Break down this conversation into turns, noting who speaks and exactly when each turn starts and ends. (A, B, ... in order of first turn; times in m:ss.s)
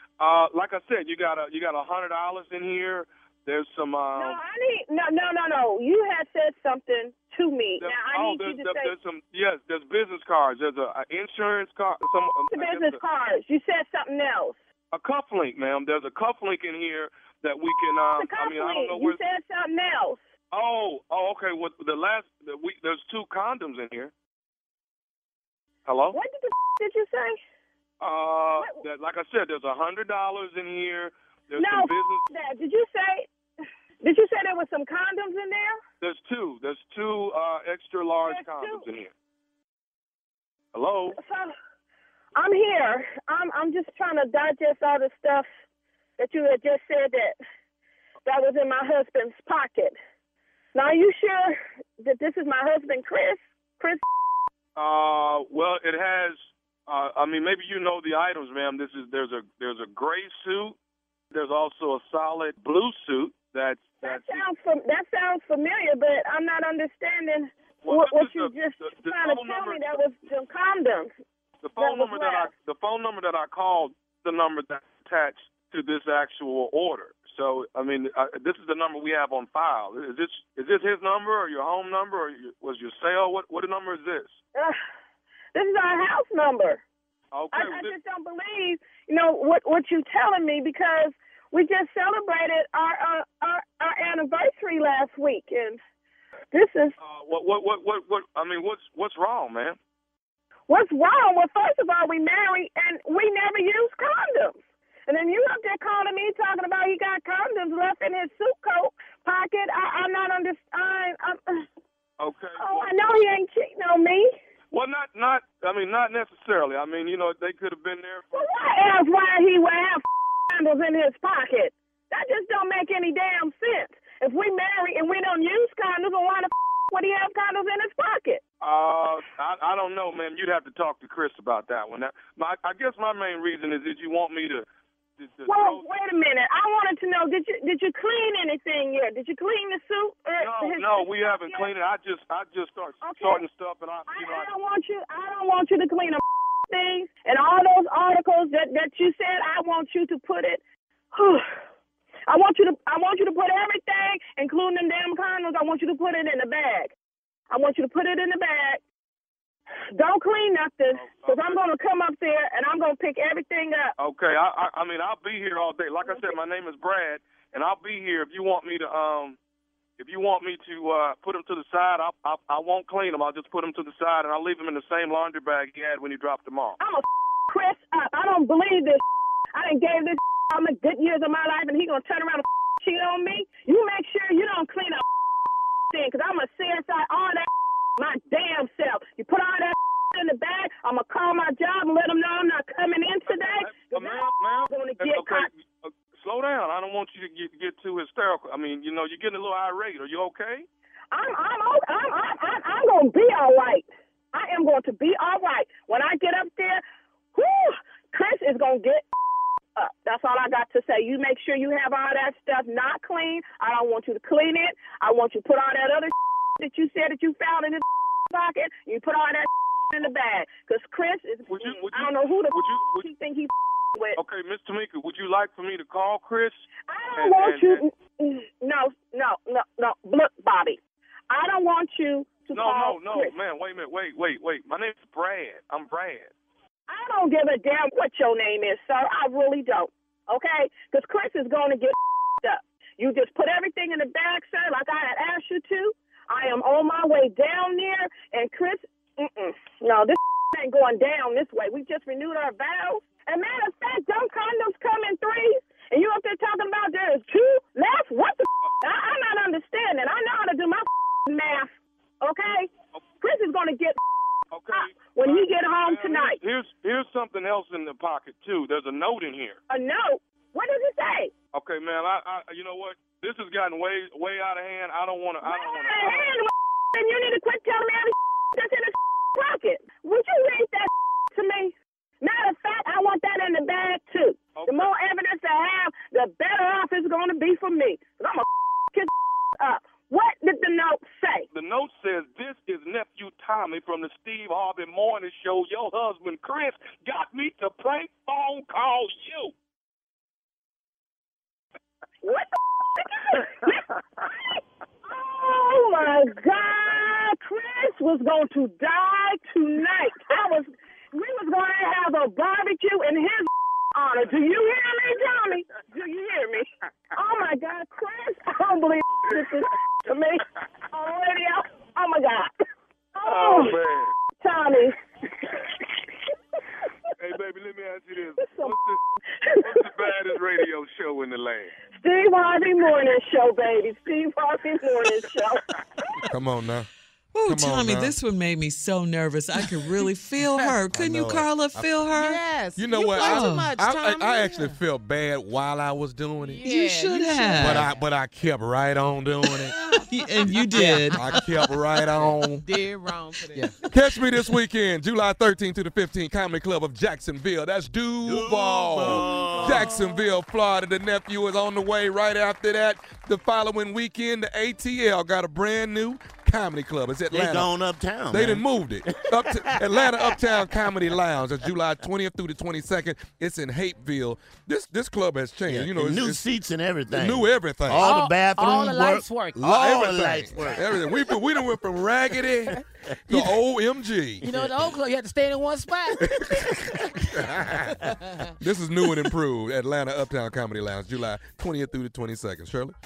0:00.2-0:04.4 A
0:04.1-0:08.9 B
0:07.8-0:13.0 A
0:12.5-0:14.6 B
0:14.9-0:19.2 A
0:18.2-0:20.2 B
0:20.5-0:24.1 A
0:25.8-0:26.2 A
0:26.1-0:27.4 B
0:28.0-0:32.2 A
0:31.6-0:33.3 B
0:34.0-0:35.8 B
0:36.0-0:39.1 A
0:38.2-0:38.8 B
0:40.7-0:41.2 A
0:41.1-0:41.5 B
0:42.4-0:45.5 B
0:46.2-0:47.4 B
0:48.2-0:50.0 B
0:50.7-0:54.0 B
0:54.8-1:00.8 A
1:01.3-1:04.4 A
1:04.0-1:11.1 B
1:07.8-1:10.0 A
1:11.6-1:24.4 A
1:11.8-1:12.5 B
1:25.5-1:26.8 B
1:27.3-1:28.0 A
1:27.5-1:35.8 B
1:36.5-1:37.0 B
1:37.0-1:39.8 A
1:40.7-1:51.7 B
1:52.2-1:52.9 A
1:52.6-1:54.3 B
1:54.7-1:58.5 A
1:58.3-2:08.4 B
2:08.6-2:14.6 A
2:15.2-2:15.8 A
2:15.5-2:21.7 B
2:20.4-2:24.5 A
2:23.0-2:23.4 B
2:24.1-2:30.6 B
2:31.1-2:31.4 B
2:32.3-2:36.9 B
2:37.5-2:38.8 B
2:39.9-2:43.9 B
2:40.9-2:41.6 A
2:44.0-2:49.4 A
2:46.0-2:46.4 B
2:50.0-2:56.8 A
2:56.8-2:59.0 B
2:59.5-3:05.0 B
3:05.9-3:15.5 B
3:13.3-3:20.7 A
3:21.1-3:26.8 B
3:27.3-3:29.1 B
3:29.8-3:44.2 B
3:41.5-3:43.1 A
3:44.2-3:46.6 A
3:46.9-3:53.3 B
3:47.1-3:47.8 A
3:52.5-3:56.3 A
3:56.9-4:24.0 B
4:24.5-4:29.6 A
4:24.7-4:26.4 B
4:29.7-4:31.3 B
4:31.5-4:36.3 A
4:35.4-4:51.5 B
4:44.5-4:44.9 A
4:51.5-4:59.5 A
5:03.0-5:22.5 B
5:23.1-5:23.8 B
5:23.2-5:24.1 A
5:24.4-5:25.0 B
5:27.2-5:29.0 A
5:28.4-5:28.7 B
5:29.4-5:30.1 B
5:29.6-5:31.8 A
5:31.9-5:36.2 B
5:36.3-5:36.9 C
5:37.3-5:42.4 D
5:37.4-5:38.2 C
5:40.9-5:42.1 C
5:42.1-5:44.8 E
5:42.8-5:46.6 C
5:43.1-5:43.7 D
5:46.4-5:48.0 E
5:46.6-5:47.9 D
5:47.5-5:49.8 C
5:49.7-5:51.4 E
5:50.1-5:51.7 D
5:50.7-5:52.7 C
5:52.1-5:53.8 E
5:53.6-6:07.7 C
5:58.2-5:59.9 F
5:59.0-6:00.1 E
6:07.3-6:10.4 F
6:08.3-6:16.4 C
6:15.7-6:21.1 F
6:17.1-6:18.2 C
6:18.0-6:19.7 E
6:19.5-6:24.5 C
6:23.3-6:23.6 E
6:24.4-6:26.3 E
6:24.4-6:24.9 F
6:26.3-6:26.8 C
6:27.3-6:28.0 C
6:28.1-6:28.5 E
6:28.6-6:32.9 C